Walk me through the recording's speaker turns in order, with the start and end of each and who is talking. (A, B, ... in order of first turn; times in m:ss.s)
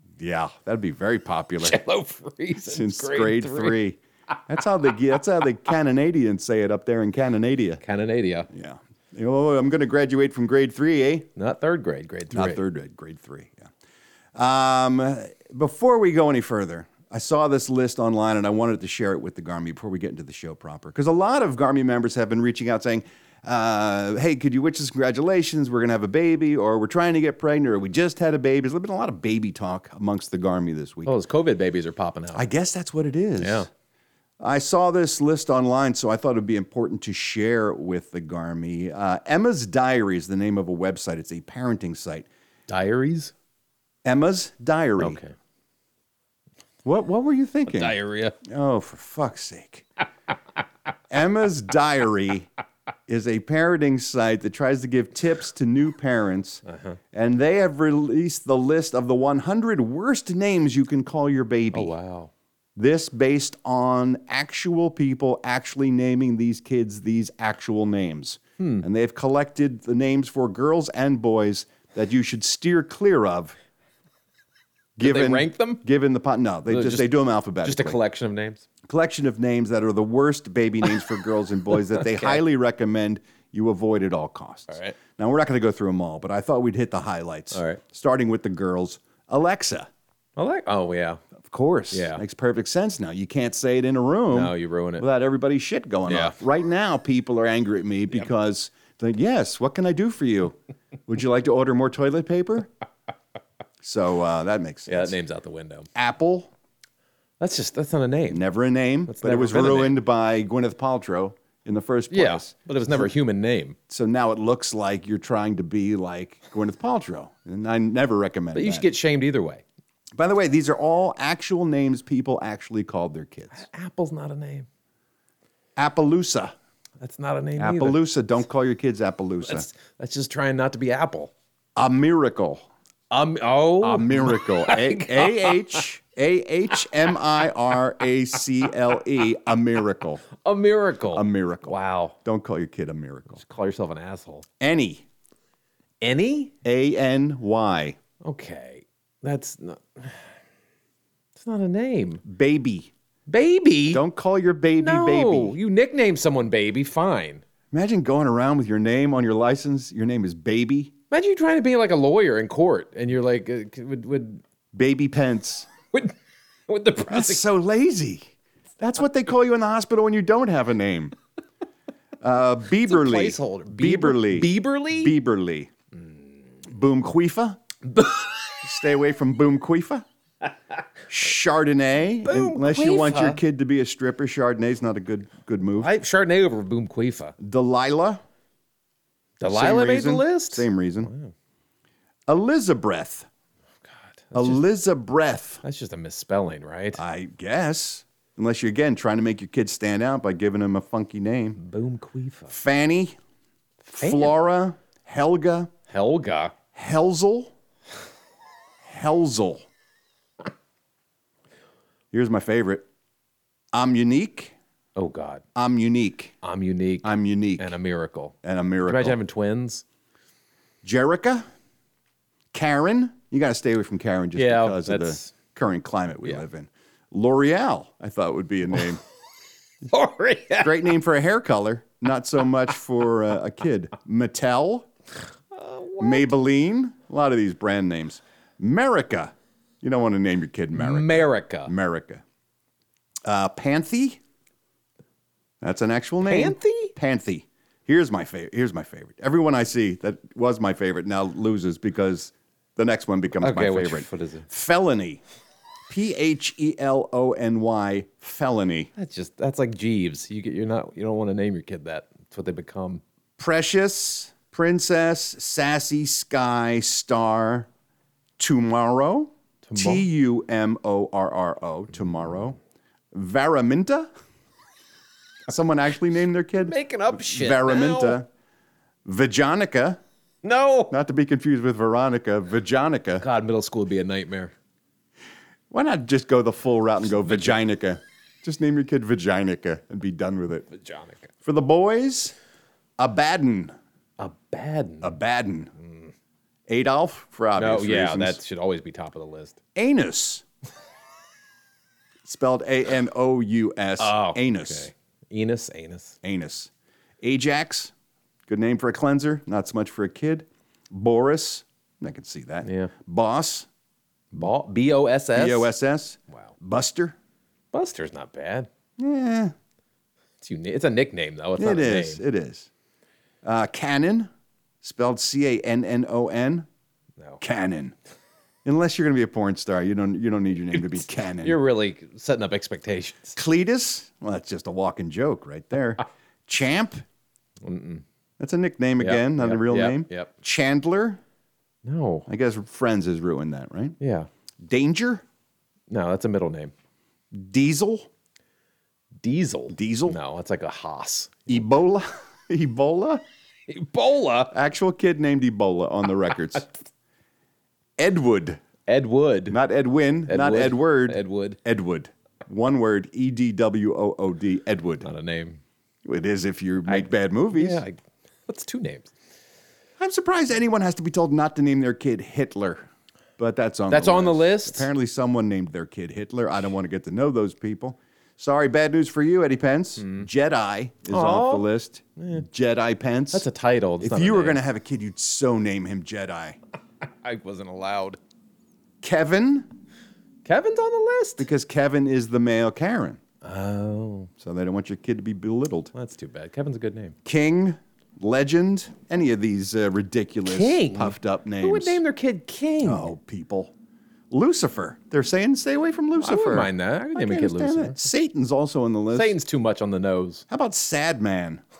0:00.2-0:01.8 A
0:01.6-0:03.8 B
0:02.6-0:07.8 A
0:07.8-0:08.5 B
0:08.5-0:11.3 A
0:11.4-0:12.6 B
0:12.3-0:13.7 A
0:14.4-0:31.1 A
0:31.0-0:32.4 B
0:32.3-0:33.7 A
0:33.4-0:33.7 B
0:34.4-0:42.3 A
0:42.7-0:43.3 B
0:44.0-0:45.2 A
0:45.0-0:45.3 B
0:46.8-0:49.8 A
0:47.7-0:48.4 B
0:51.1-0:52.5 A
0:53.1-1:01.9 A
0:56.7-0:57.0 B
1:01.7-1:02.3 B
1:02.8-1:13.6 A
1:08.6-1:08.8 B
1:15.0-1:18.0 A
1:15.0-1:15.8 B
1:16.6-1:18.6 B
1:18.8-1:29.9 A
1:21.9-1:22.4 B
1:24.7-1:25.0 B
1:27.5-1:27.8 B
1:30.4-1:31.2 B
1:31.4-1:40.6 A
1:31.9-1:32.2 B
1:34.3-1:35.0 B
1:36.0-1:36.4 B
1:41.1-1:42.7 A
1:43.8-1:45.1 A
1:44.8-1:45.9 B
1:45.9-1:46.5 A
1:47.4-1:48.4 B
1:48.3-1:53.1 A
1:49.1-1:50.0 B
1:52.1-1:53.8 B
1:53.9-1:58.9 A
1:58.5-1:59.6 B
2:00.2-2:03.7 A
2:03.5-2:04.7 B
2:05.8-2:06.5 A
2:07.0-2:08.0 B
2:07.6-2:09.7 A
2:09.4-2:11.3 B
2:11.8-2:12.7 A
2:13.1-2:15.6 B
2:13.8-2:20.2 A
2:20.4-2:22.2 B
2:21.1-2:23.4 A
2:23.3-2:24.4 B
2:24.6-2:25.0 A
2:26.0-2:26.5 B
2:26.6-2:28.0 A
2:28.2-2:30.3 B
2:31.4-2:32.2 B
2:32.2-2:32.9 A
2:33.3-2:34.0 B
2:33.9-2:35.6 A
2:34.8-2:37.4 B
2:37.7-2:40.9 A
2:41.1-2:44.4 B
2:44.7-2:45.7 A
2:46.7-2:47.4 B
2:47.1-2:51.1 A
2:52.2-2:55.7 A
2:52.8-2:55.2 B
2:56.7-2:57.6 A
2:57.9-2:58.2 B
2:58.6-3:00.0 A
3:01.1-3:05.9 A
3:02.2-3:03.4 B
3:05.8-3:07.3 B
3:07.4-3:08.2 A
3:09.4-3:11.3 B
3:09.4-3:11.1 A
3:12.3-3:13.3 A
3:14.1-3:14.6 B
3:14.3-3:15.6 A
3:15.6-3:17.0 B
3:17.0-3:21.6 A
3:21.6-3:22.5 B
3:22.5-3:23.2 A
3:23.8-3:24.4 B
3:23.9-3:25.7 A
3:25.9-3:26.5 B
3:26.7-3:27.5 A
3:28.8-3:29.6 A
3:32.1-3:32.8 A
3:33.7-3:34.5 A
3:35.0-3:35.4 B
3:35.5-3:36.3 A
3:36.4-3:39.8 B
3:37.0-3:37.7 A
3:38.4-3:39.2 A
3:40.8-3:41.5 A
3:42.5-3:49.0 A
3:44.4-3:45.3 B
3:49.9-3:50.7 B
3:50.6-3:54.9 A
3:55.5-3:56.3 B
3:56.0-4:02.2 A
4:00.7-4:01.7 B
4:03.2-4:04.2 A
4:05.6-4:15.2 A
4:06.2-4:06.9 B
4:13.4-4:14.5 B
4:15.9-4:18.9 A
4:19.0-4:23.0 B
4:23.4-4:27.7 A
4:28.4-4:32.6 A
4:29.6-4:30.1 B
4:33.1-4:34.1 A
4:35.5-4:38.2 A
4:36.6-4:38.2 B
4:39.0-4:40.0 A
4:40.4-4:40.9 B
4:40.9-4:43.2 A
4:43.2-4:44.5 B
4:45.7-4:50.7 A
4:47.2-4:47.6 B
4:50.7-4:51.3 B
4:51.4-4:52.3 A
4:53.0-4:53.7 A
4:54.2-4:55.2 B
4:55.0-4:55.7 A
4:55.8-4:56.1 B
4:56.7-4:58.4 A
4:57.6-4:59.6 B
4:59.7-5:00.4 A
5:02.2-5:04.9 A
5:04.0-5:06.2 B
5:06.2-5:06.7 A
5:07.2-5:07.9 A
5:08.5-5:13.7 A
5:12.6-5:12.9 B
5:14.3-5:15.7 B
5:15.3-5:17.1 A
5:17.7-5:18.7 B
5:19.0-5:19.5 A
5:20.4-5:22.2 B
5:21.6-5:22.7 A
5:23.4-5:24.3 A
5:24.8-5:26.6 A
5:27.4-5:27.9 A
5:28.6-5:31.6 A
5:30.7-5:33.4 B
5:33.3-5:37.0 A
5:37.6-5:38.0 B
5:38.4-5:41.2 A
5:39.0-5:40.3 B
5:41.8-5:42.3 B
5:42.3-5:44.0 A
5:44.0-5:44.3 B
5:44.6-5:45.2 A
5:45.9-5:46.7 B
5:47.3-5:48.1 A
5:49.2-5:51.6 B
5:49.7-5:50.2 A
5:51.5-5:53.2 A
5:53.7-5:54.5 B
5:54.5-5:56.7 A
5:58.0-5:58.6 A
5:58.9-5:59.6 B
5:59.5-6:05.1 A
6:00.3-6:01.6 B
6:05.0-6:05.6 B
6:06.0-6:07.8 A
6:06.8-6:09.1 B
6:10.0-6:12.8 A
6:13.4-6:23.4 A
6:13.9-6:14.9 B
6:20.0-6:20.3 B
6:21.1-6:22.4 B
6:23.3-6:24.6 B
6:24.0-6:26.6 A
6:27.0-6:28.2 B
6:29.0-6:29.7 A
6:30.4-6:31.5 B
6:31.4-6:33.2 A
6:33.4-6:34.3 B
6:34.4-6:35.9 A
6:35.9-6:37.2 B
6:37.2-6:42.0 A
6:40.4-6:43.1 B
6:42.8-6:43.7 A
6:44.3-6:49.4 A
6:46.2-6:48.0 B
6:49.1-6:50.4 B
6:50.5-6:51.6 A